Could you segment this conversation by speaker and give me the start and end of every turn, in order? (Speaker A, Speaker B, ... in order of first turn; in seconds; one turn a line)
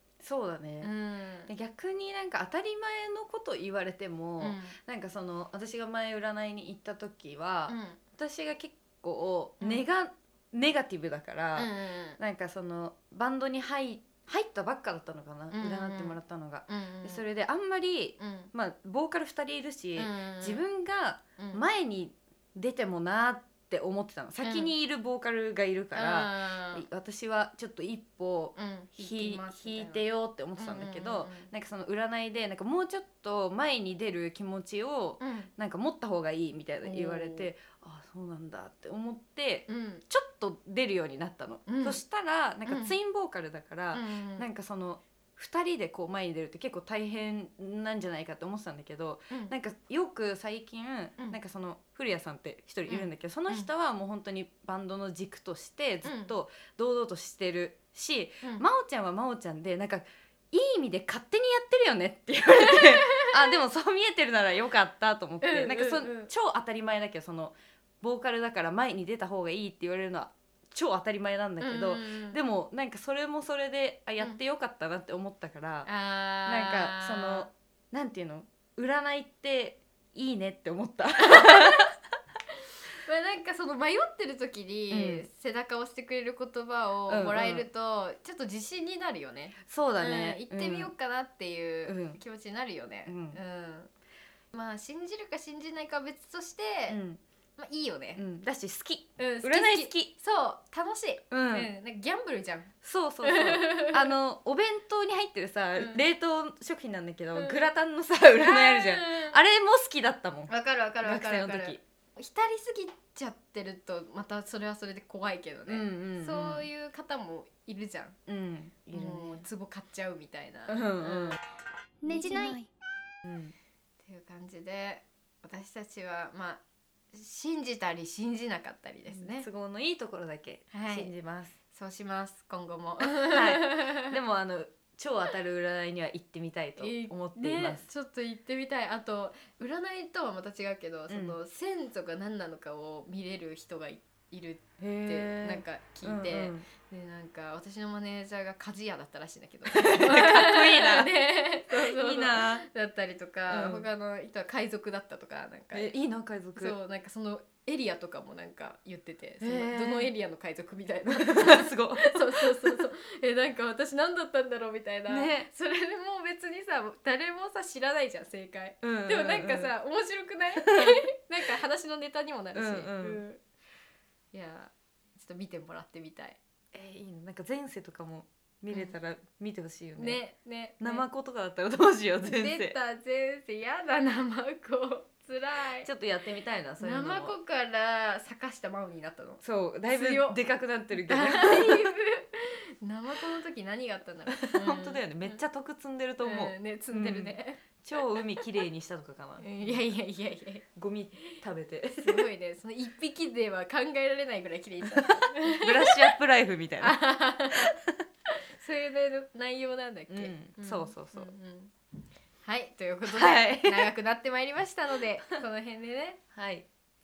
Speaker A: 0.2-0.9
Speaker B: 0.8-1.5
Speaker A: 1.5-75.9
Speaker B: 4.4-4.8
Speaker B: 7.7-8.0
Speaker B: 9.6-9.8
Speaker B: 11.6-12.2
Speaker B: 15.5-17.2
Speaker B: 18.2-18.5
Speaker B: 20.0-20.6
Speaker B: 21.4-21.6
Speaker B: 24.4-24.7
Speaker B: 25.9-26.9
Speaker B: 28.6-30.0
Speaker B: 30.6-31.5
Speaker B: 35.2-35.5
Speaker B: 36.8-37.5
Speaker B: 39.7-40.0
Speaker B: 41.7-42.0
Speaker B: 42.7-42.9
Speaker B: 43.9-44.5
Speaker B: 52.9-53.7
Speaker B: 56.0-56.3
Speaker B: 62.7-63.3
Speaker B: 65.4-66.3
Speaker B: 71.6-72.4
Speaker B: 75.8-77.5
Speaker A: 76.5-81.9
Speaker B: 81.3-81.9
Speaker B: 83.0-93.9
Speaker A: 84.9-85.3
Speaker A: 87.1-87.7
Speaker A: 89.7-90.9
Speaker A: 91.9-92.2
Speaker A: 93.1-93.4
Speaker B: 94.5-97.0
Speaker A: 96.9-97.2
Speaker B: 97.6-98.2
Speaker A: 98.2-100.1
Speaker B: 99.2-104.1
Speaker A: 101.3-101.7
Speaker A: 102.8-111.8
Speaker B: 105.8-106.0
Speaker B: 107.3-107.7
Speaker B: 108.4-109.4
Speaker B: 110.5-118.2
Speaker A: 115.7-116.7
Speaker A: 118.3-119.4
Speaker B: 118.9-121.4
Speaker A: 120.7-121.4
Speaker B: 122.0-122.6
Speaker A: 123.2-123.5
Speaker B: 124.0-129.5
Speaker A: 129.1-131.6
Speaker B: 130.7-131.1
Speaker B: 131.7-134.1
Speaker A: 133.0-137.8
Speaker B: 136.8-155.9
Speaker A: 141.1-141.4
Speaker A: 144.8-146.7
Speaker A: 149.7-152.7
Speaker A: 153.5-153.9
Speaker A: 155.7-156.8
Speaker B: 156.6-173.4
Speaker A: 159.4-160.1
Speaker A: 161.2-162.9
Speaker A: 165.1-165.5
Speaker A: 168.8-169.7
Speaker A: 170.6-171.0
Speaker A: 172.5-173.2
Speaker B: 174.3-176.4
Speaker A: 176.7-180.2
Speaker B: 180.0-181.1
Speaker A: 180.8-182.8
Speaker B: 182.2-185.9
Speaker A: 185.8-187.4
Speaker B: 186.8-190.4
Speaker A: 189.4-191.9
Speaker B: 190.9-195.4
Speaker A: 194.4-199.8
Speaker B: 196.2-197.6
Speaker B: 199.4-200.7
Speaker A: 200.8-202.3
Speaker B: 202.0-206.1
Speaker A: 204.9-207.0
Speaker B: 206.8-207.8
Speaker A: 207.7-208.0
Speaker B: 208.3-211.7
Speaker A: 210.1-211.3
Speaker B: 212.4-216.2
Speaker A: 213.1-213.9
Speaker A: 216.3-216.7